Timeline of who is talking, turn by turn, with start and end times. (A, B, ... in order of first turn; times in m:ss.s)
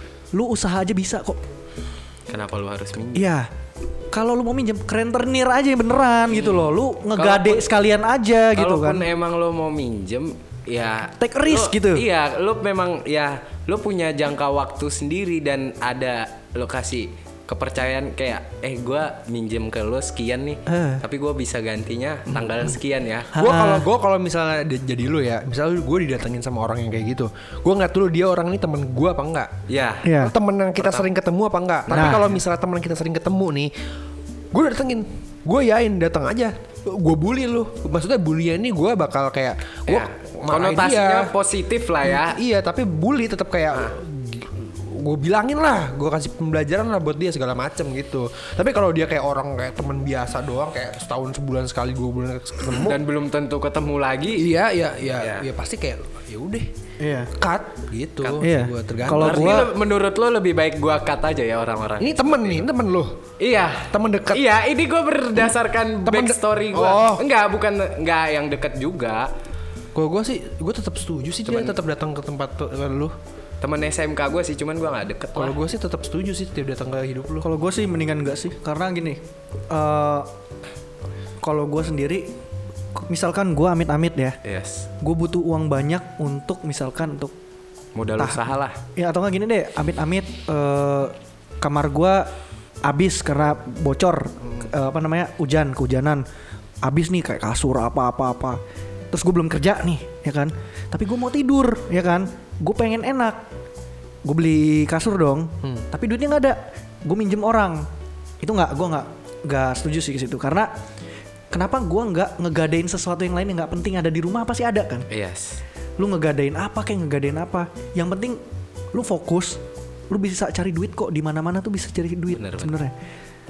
0:00.3-0:01.4 A
0:02.3-0:03.3 B
0:03.2-0:03.5 A
0:04.1-0:09.1 A
0:06.3-0:07.7 B
0:08.6-0:23.4 B
0:11.2-0:12.1 A
0:20.7-0:21.0 A
0:23.3-0:23.9 A
0:23.3-0:29.5 C
0:29.7-0:30.1 B
0:30.0-0:30.3 A
0:30.2-0:33.7 C
0:31.9-0:32.2 A
0:31.9-0:32.2 B
0:34.5-0:41.3 C
0:39.9-0:42.4 B
0:42.0-0:53.0 C
0:52.7-0:54.5 B
0:54.4-0:56.7 C
0:55.2-0:55.4 B
0:57.0-0:57.3 A
0:57.4-0:59.7 C
0:58.2-0:58.5 B
0:58.4-0:59.7 A
0:59.2-1:02.6 B
1:02.0-1:03.2 C
1:03.4-1:09.3 B
1:03.9-1:04.4 C
1:06.0-1:07.2 C
1:10.0-1:13.1 C
1:11.5-1:11.8 B
1:13.6-1:15.6 B
1:15.4-1:17.5 C
1:17.4-1:20.3 A
1:21.4-1:22.3 A
1:23.0-1:24.4 A
1:24.4-1:24.9 B
1:25.0-1:27.3 A
1:28.0-1:28.8 B
1:28.2-1:32.3 A
1:32.8-1:36.2 A
1:36.8-1:38.6 A
1:39.1-1:43.4 A
1:44.2-1:47.9 A
1:48.4-1:50.7 A
1:51.5-1:55.1 A
1:55.1-1:55.6 B
1:56.0-1:58.4 A
1:58.9-2:02.9 A
2:02.3-2:02.7 B